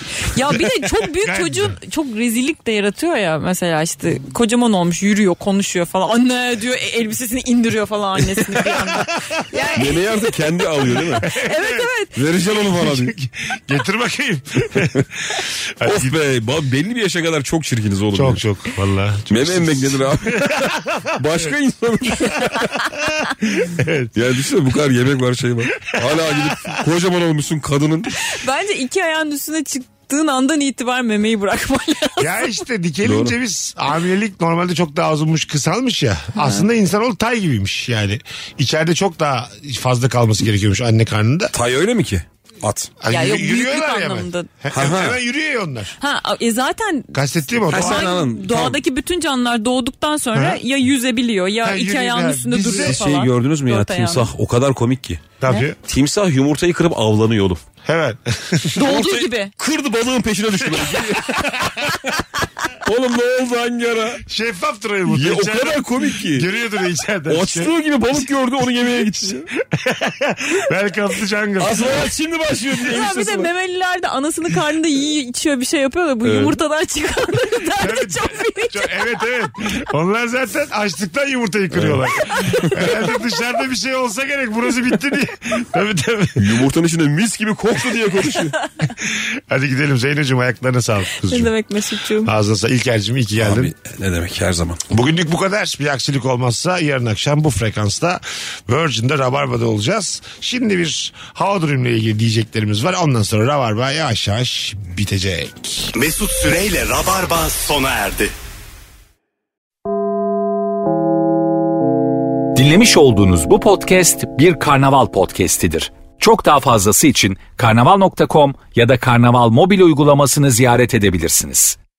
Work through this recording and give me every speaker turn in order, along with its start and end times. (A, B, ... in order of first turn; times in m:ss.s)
0:00.2-0:12.2 A
0:00.9-0:01.8 B
0:08.7-0:09.4 B
0:09.8-0:11.3 C
0:11.2-0:11.9 B
0:12.2-0:13.1 C
0:12.7-0:16.2 B
0:15.8-0:18.4 C
0:18.1-0:21.5 B
0:19.3-0:22.9 C
0:23.1-0:24.1 B
0:24.2-0:28.2 C
0:26.0-0:26.6 B
0:28.3-0:32.6 A
0:32.2-0:41.5 B
0:33.0-0:33.3 C
0:41.5-0:42.9 C
0:43.0-0:46.0 B
0:43.1-0:44.5 A
0:44.7-0:45.2 C
0:46.0-0:54.3 A
0:47.1-0:48.2 B
0:47.7-0:48.8 C
0:50.3-0:50.6 B
0:51.6-0:53.0 B
0:52.8-0:55.3 C
0:55.4-0:55.8 B
0:55.9-0:57.6 C
0:57.8-0:58.9 B
0:58.7-1:02.2 C
0:58.8-0:59.5 A
1:00.7-1:01.4 B
1:02.8-1:04.2 C
1:04.2-1:07.8 B
1:05.1-1:06.5 C
1:07.3-1:09.5 C
1:09.1-1:12.0 B
1:11.6-1:13.5 C
1:12.8-1:19.1 A
1:16.2-1:16.6 C
1:17.8-1:26.6 B
1:21.7-1:22.9 C
1:26.4-1:28.6 C
1:29.0-1:31.5 B
1:31.3-1:32.3 A
1:32.2-1:33.7 B
1:33.4-1:34.8 C
1:34.9-1:45.9 B
1:45.9-1:48.3 D
1:52.6-2:01.8 E